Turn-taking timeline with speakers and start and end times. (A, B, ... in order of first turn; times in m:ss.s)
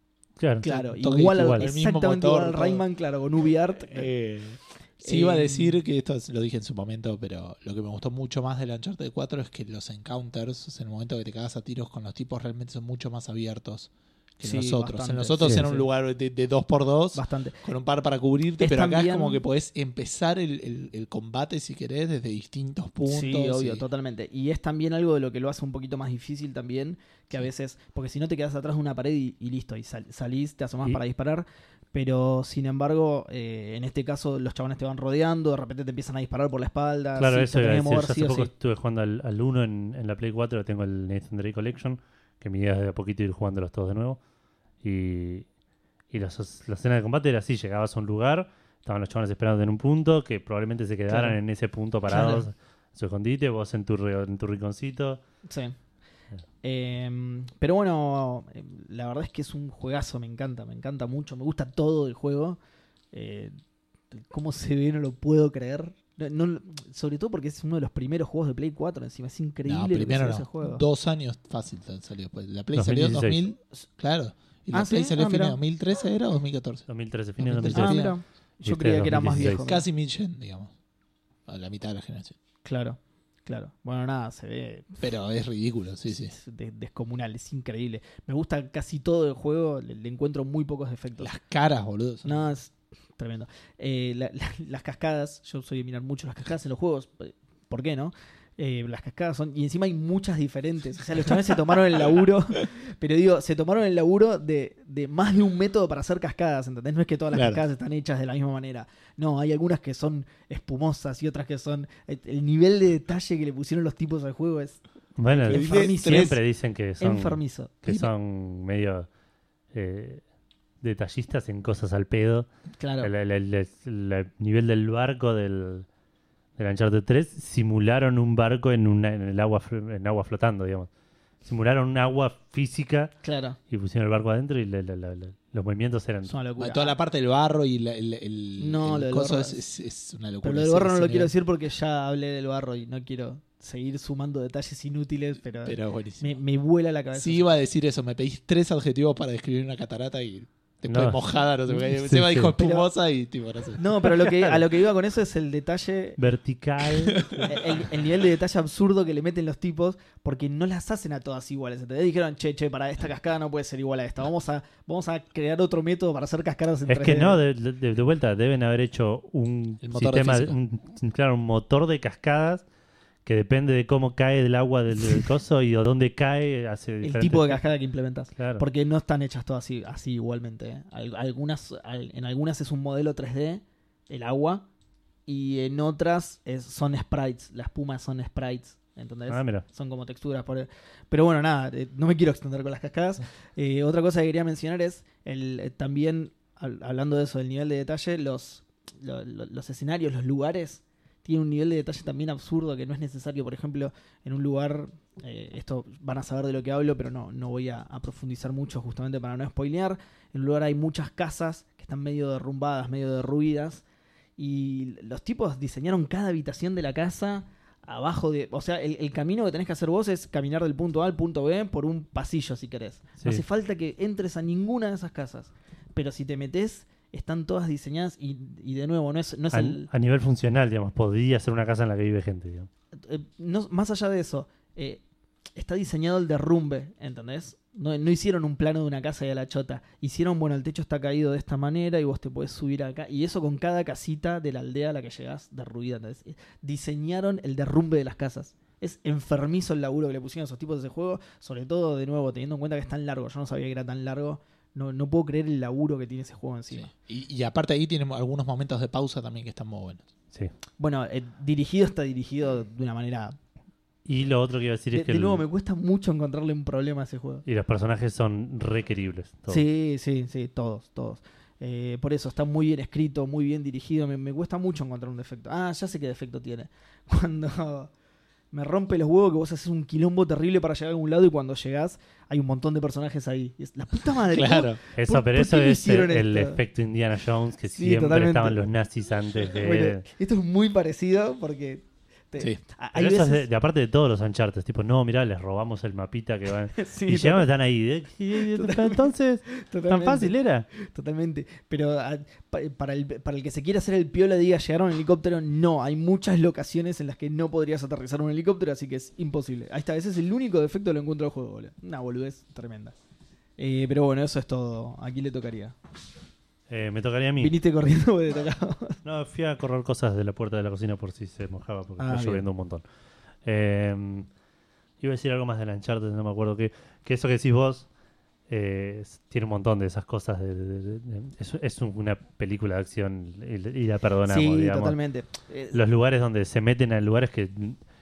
0:00.4-0:00.7 A
0:00.6-0:02.8 B
0:00.6-0:04.1 C
0:01.3-0:01.7 A
0:03.7-0:23.8 B
0:05.0-0:05.8 C
0:14.4-0:15.9 C
0:17.1-0:17.6 C
0:18.6-0:19.4 C
0:23.0-0:38.5 C
0:37.2-0:44.2 A
0:44.8-0:45.5 A
0:46.1-0:55.2 A
0:51.1-0:51.4 C
0:52.1-0:52.4 C
0:55.5-0:55.7 C
0:56.6-1:02.6 C
1:03.1-1:03.5 C
1:04.1-1:10.8 C
1:09.6-1:16.9 B
1:12.7-1:13.4 A
1:14.7-1:15.6 C
1:16.9-1:18.0 A
1:17.4-1:18.2 B
1:17.7-1:19.8 C
1:18.6-1:19.6 A
1:19.1-1:20.7 B
1:21.5-1:22.4 B
1:22.6-1:24.9 C
1:25.0-1:26.3 B
1:26.2-1:31.3 C
1:31.2-1:32.4 B
1:32.2-1:56.4 C
1:47.3-1:47.6 B
1:55.2-1:59.1 A
1:55.5-1:56.4 B
1:57.0-1:57.8 C
1:59.7-2:00.2 A
2:00.8-2:02.5 A
2:02.8-2:03.1 C
2:03.0-2:05.9 A
2:06.6-2:10.9 A
2:11.4-2:13.1 A
2:13.2-2:13.6 C
2:13.7-2:16.4 A
2:16.3-2:17.0 C
2:16.6-2:21.3 B
2:18.6-2:19.6 C
2:20.4-2:27.4 C
2:25.6-2:26.3 B
2:27.1-2:33.8 B
2:30.9-2:31.2 A
2:31.8-2:32.5 A
2:32.5-2:32.9 C
2:33.8-2:36.2 C
2:34.0-2:34.6 A
2:36.2-2:37.6 A
2:37.2-2:37.5 B
2:37.4-2:47.4 C
2:46.9-2:52.6 A
2:49.8-2:50.6 B
2:53.2-2:57.6 A
2:57.0-3:04.6 C
2:58.4-2:58.6 A
3:05.3-3:33.8 C
3:09.3-3:09.6 A
3:34.4-3:49.9 C
3:49.5-3:52.7 A
3:53.0-3:55.0 C
3:55.6-4:16.9 C
4:16.7-4:20.0 B
4:20.8-4:23.4 C
4:24.0-4:25.4 A
4:24.9-4:27.4 C
4:27.4-4:29.6 A
4:29.5-4:37.9 C
4:38.5-4:46.6 C
4:44.3-4:44.8 B
4:45.0-4:50.0 A
4:47.7-4:48.7 C
4:49.5-4:53.4 C
4:52.9-5:00.7 A
4:56.7-4:57.5 C
4:58.3-5:12.9 C
5:13.6-5:15.8 C
5:16.7-5:17.5 A
5:17.4-5:19.0 C
5:19.0-5:22.8 A
5:22.0-5:22.4 C
5:23.4-5:24.3 A
5:25.0-5:27.9 A
5:28.5-5:35.0 A
5:34.3-5:35.8 C
5:35.7-5:37.8 A